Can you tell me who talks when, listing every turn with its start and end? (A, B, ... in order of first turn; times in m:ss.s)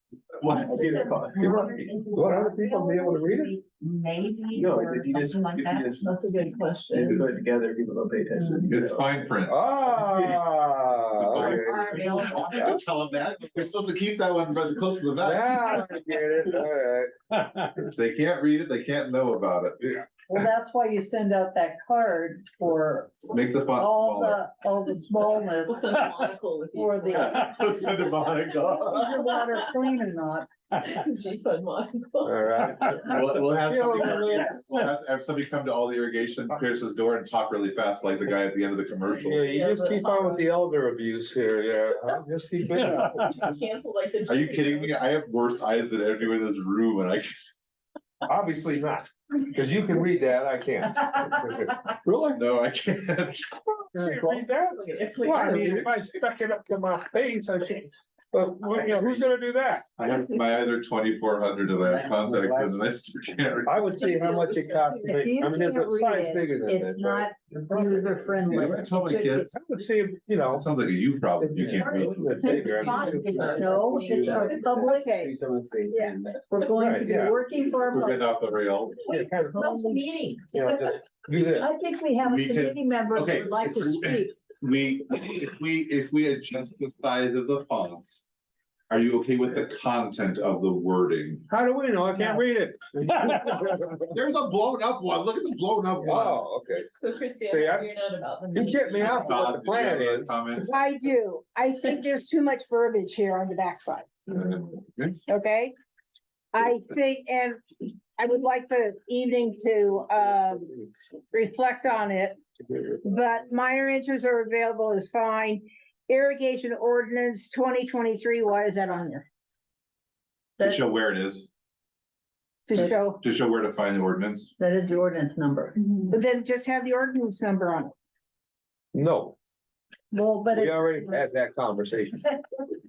0:00.4-0:01.9 A
0:00.5-0:01.5 B
0:00.6-0:06.6 C
0:01.4-0:03.5 D
0:04.5-0:06.2 B
0:05.9-0:07.3 E
0:06.9-0:09.1 B
0:08.3-0:08.7 E
0:08.7-0:09.6 A
0:09.5-0:12.6 D
0:09.8-0:10.5 B
0:11.2-0:15.8 A
0:11.5-0:13.2 C
0:15.2-0:17.2 D
0:17.9-0:19.9 A
0:20.2-0:25.8 F
0:23.3-0:24.4 A
0:25.6-0:28.0 E
0:26.7-0:27.5 F
0:27.1-0:29.2 A
0:28.8-0:30.5 F
0:29.1-0:29.7 E
0:30.8-0:33.0 E
0:32.2-0:34.8 D
0:33.0-0:39.5 A
0:39.2-0:43.3 D
0:39.4-0:40.5 E
0:43.0-0:45.0 E
0:44.2-0:47.3 A
0:48.2-0:52.4 D
0:52.3-0:53.6 A
0:53.9-0:59.9 D
0:54.0-0:56.0 E
1:00.0-1:03.8 A
1:02.0-1:02.8 D
1:03.6-1:08.4 D
1:03.9-1:05.2 E
1:05.1-1:09.5 F
1:08.5-1:09.6 A
1:09.3-1:10.6 D
1:10.5-1:12.5 A
1:11.4-1:14.2 D
1:11.7-1:12.0 C
1:12.4-1:14.7 E
1:12.6-1:14.0 C
1:12.7-1:13.1 B
1:13.6-1:15.1 F
1:14.2-1:16.4 B
1:14.8-1:15.3 G
1:15.9-1:18.3 F
1:16.7-1:17.4 D
1:17.9-1:19.0 A
1:19.0-1:21.7 D
1:19.5-1:20.8 C
1:21.5-1:24.3 F
1:22.2-1:28.3 A
1:28.9-1:31.4 A
1:31.5-1:34.2 D
1:34.1-1:36.4 A
1:36.0-1:36.9 D
1:36.9-1:39.5 E
1:37.5-1:37.9 D
1:38.5-1:40.3 D
1:39.0-1:40.7 A
1:40.7-1:44.2 G
1:44.3-1:45.2 A
1:45.3-1:45.7 G
1:46.5-1:47.6 G
1:48.2-1:50.8 G
1:51.3-1:52.4 G
1:53.0-1:59.2 G
2:00.6-2:01.5 A
2:02.6-2:03.2 G
2:02.8-2:04.5 A
2:04.6-2:05.8 F
2:05.8-2:06.1 E
2:06.1-2:07.9 G
2:08.9-2:09.3 D
2:10.1-2:11.1 F
2:10.5-2:12.3 D